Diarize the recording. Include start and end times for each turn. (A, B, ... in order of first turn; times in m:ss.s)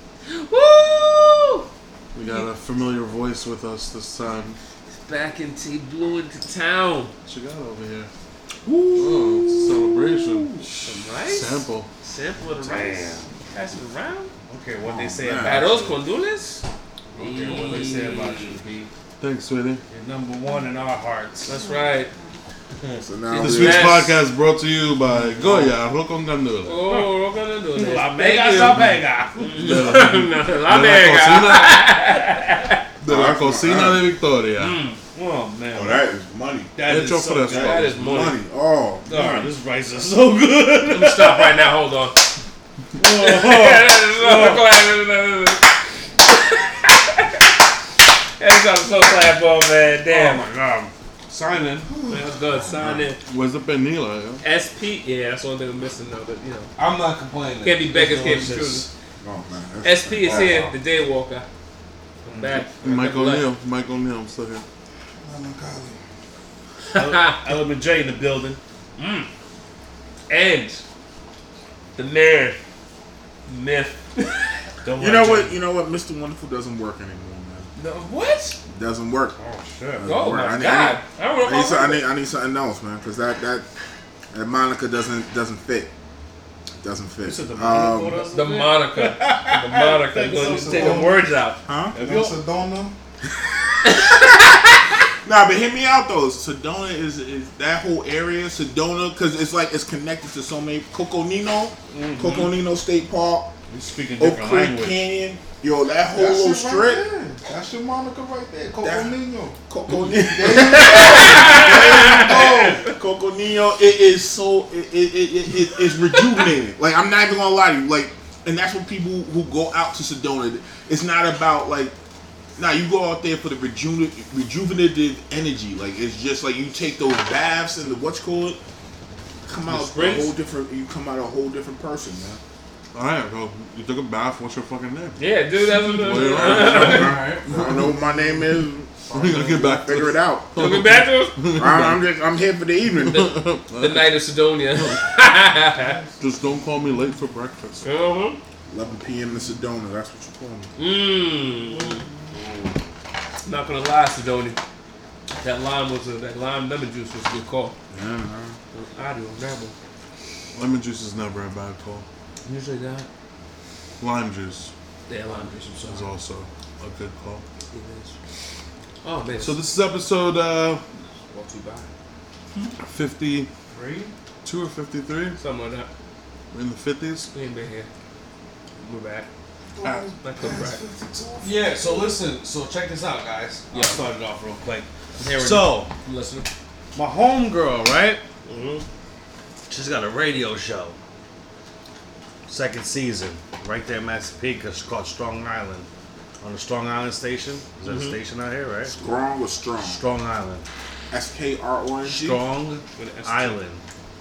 0:00.3-0:01.6 A
0:02.1-0:04.6 B
0:05.0-0:07.1 A
0:07.3-0:08.1 B
0:08.6-0:10.7 C
0:08.9-0:11.9 B
0:10.8-0:14.3 A
0:12.6-0:13.2 D
0:14.5-0:16.0 D
0:14.8-0:15.7 C
0:15.4-0:16.6 A
0:17.1-0:18.9 D
0:17.2-0:18.5 A
0:17.4-0:17.7 B
0:19.2-0:19.8 B
0:19.9-0:21.7 D
0:21.4-0:22.1 A
0:23.0-0:24.0 C
0:23.3-0:24.2 A
0:23.4-0:26.8 B
0:25.3-0:25.7 D
0:26.6-0:28.8 A
0:27.7-0:30.0 D
0:29.4-0:32.8 A
0:29.6-0:31.8 B
0:33.0-0:34.0 C
0:33.0-0:34.8 B
0:34.6-0:35.0 A
0:35.1-0:36.0 D
0:35.7-0:36.7 C
0:36.8-0:37.8 D
0:36.8-0:38.1 B
0:37.5-0:38.4 A
0:37.9-0:39.5 C
0:39.1-0:41.7 D
0:40.9-0:42.2 A
0:43.0-0:44.6 D
0:43.0-0:45.7 A
0:46.2-0:47.5 A
0:48.4-0:50.5 A
0:50.0-0:51.9 D
0:51.9-0:52.2 E
0:52.1-0:53.2 A
0:52.5-0:53.1 C
0:53.2-0:54.4 B
0:54.4-0:56.7 A
0:56.8-0:58.9 D
0:57.6-0:58.9 A
0:59.2-1:00.6 C
0:59.8-1:01.4 A
1:00.2-1:00.7 D
1:02.2-1:02.6 D
1:02.3-1:03.4 A
1:02.8-1:04.6 B
1:05.2-1:06.0 E
1:06.9-1:07.4 A
1:06.9-1:08.6 D
1:09.0-1:09.3 A
1:10.3-1:10.8 A
1:12.0-1:12.6 A
1:13.5-1:14.6 A
1:14.8-1:15.6 D
1:15.0-1:17.7 C
1:17.8-1:18.6 A
1:18.7-1:19.4 C
1:19.4-1:20.1 D
1:20.0-1:23.7 C
1:20.0-1:22.0 A
1:24.3-1:25.9 C
1:26.8-1:28.2 C
1:27.2-1:31.2 D
1:28.3-1:31.6 A
1:30.3-1:31.3 E
1:31.6-1:32.0 C
1:31.9-1:32.4 D
1:31.9-1:32.9 E
1:33.3-1:43.6 C
1:33.9-1:34.4 A
1:41.9-1:42.5 D
1:43.7-1:45.0 D
1:44.2-1:47.0 C
1:46.1-1:49.6 E
1:48.8-1:49.2 C
1:49.7-2:01.9 C
1:49.9-1:52.9 A
1:50.1-1:52.9 E
1:56.1-1:56.4 A
2:02.6-2:08.6 C
2:09.4-2:12.4 C
2:09.7-2:10.3 A
2:12.9-2:18.0 B
2:15.2-2:17.2 A
2:16.1-2:17.9 E
2:16.7-2:20.7 C
2:17.1-2:17.4 D
2:19.1-2:22.0 B
2:20.6-2:21.6 A
2:21.6-2:23.3 C
2:23.0-2:24.2 B
2:23.1-2:26.0 A
2:25.7-2:26.5 E
2:26.2-2:27.9 B
2:27.8-2:28.4 A
2:28.7-2:30.7 C
2:30.8-2:32.0 A
2:31.7-2:32.4 E
2:32.3-2:32.8 D
2:33.4-2:34.6 A
2:35.3-2:37.7 A
2:37.9-2:38.6 C
2:38.7-2:39.7 A
2:40.5-2:42.0 B
2:42.4-2:43.1 A
2:44.0-2:44.7 B
2:45.1-2:46.1 A
2:45.8-2:47.4 B
2:47.7-2:48.1 A
2:49.0-2:49.6 A
2:49.4-2:50.8 B
2:51.2-2:51.9 A
2:52.8-2:53.5 B
2:53.7-2:54.1 D
2:54.4-2:55.4 B
2:55.4-2:55.9 A
2:56.5-2:57.3 B
2:57.3-2:57.9 A
2:58.8-2:59.3 A
2:59.7-3:02.1 E
3:00.2-3:00.8 A
3:01.4-3:05.9 D
3:03.7-3:04.0 A
3:05.2-3:06.5 A
3:06.9-3:08.2 D
3:08.4-3:08.8 A
3:09.7-3:11.0 D
3:12.5-3:15.9 D
3:16.4-3:18.9 D
3:17.8-3:18.2 A
3:18.9-3:20.0 C
3:19.8-3:20.6 D
3:21.1-3:22.4 C
3:22.0-3:23.8 D
3:22.9-3:23.6 A